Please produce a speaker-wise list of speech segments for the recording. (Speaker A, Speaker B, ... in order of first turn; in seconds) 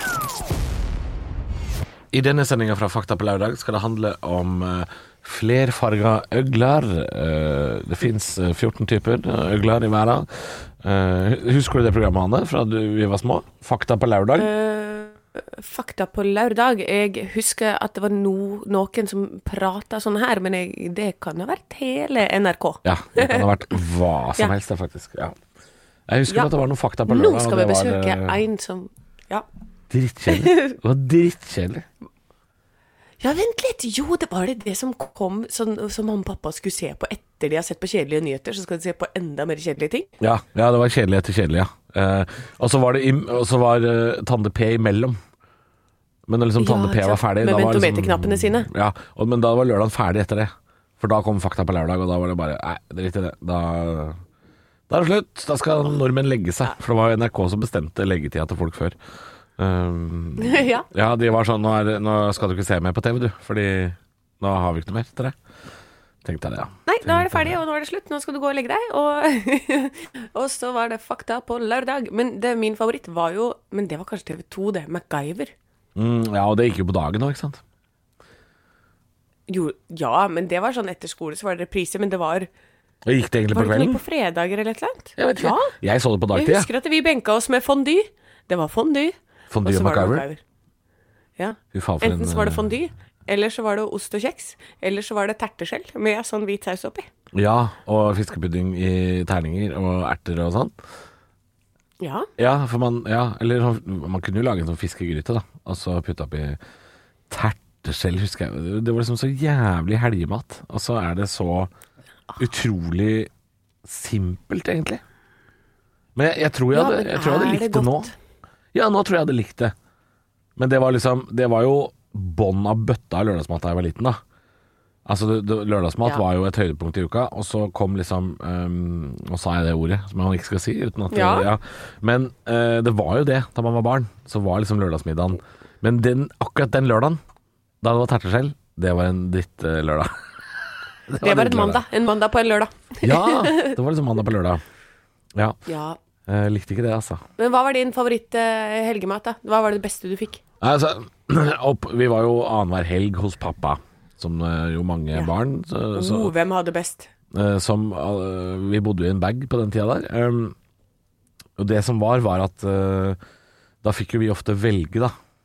Speaker A: 2.1-14.5, 22.8-25.4, 26.1-28.4, 29.9-31.9, 40.2-45.2, 46.3-54.2, 54.9-59.0, 59.6-65.3, 66.2-67.5, 76.0-77.6, 83.0-84.0, 85.2-86.7, 89.5-90.3, 91.7-92.7, 97.3-100.7, 102.4-106.6, 107.3-111.7, 112.4-113.3, 113.8-115.0, 116.2-118.1, 118.7-119.7, 120.6-124.2, 125.1-137.2, 137.8-140.1, 141.1-141.8, 143.0-144.6, 146.3-147.2, 150.6-156.3, 157.3-160.6, 161.6-163.2, 163.8-165.1
Speaker B: 14.4-23.7, 27.1-29.5, 30.3-30.6, 33.2-40.1, 46.6-48.7, 60.4-60.9, 66.9-75.5, 79.5-82.5, 83.5-85.7, 86.3-90.4, 91.4-97.1, 102.0-102.3, 116.7-118.1, 131.1-131.5, 141.2-143.7, 145.7-146.0, 147.4-150.4, 155.9-157.1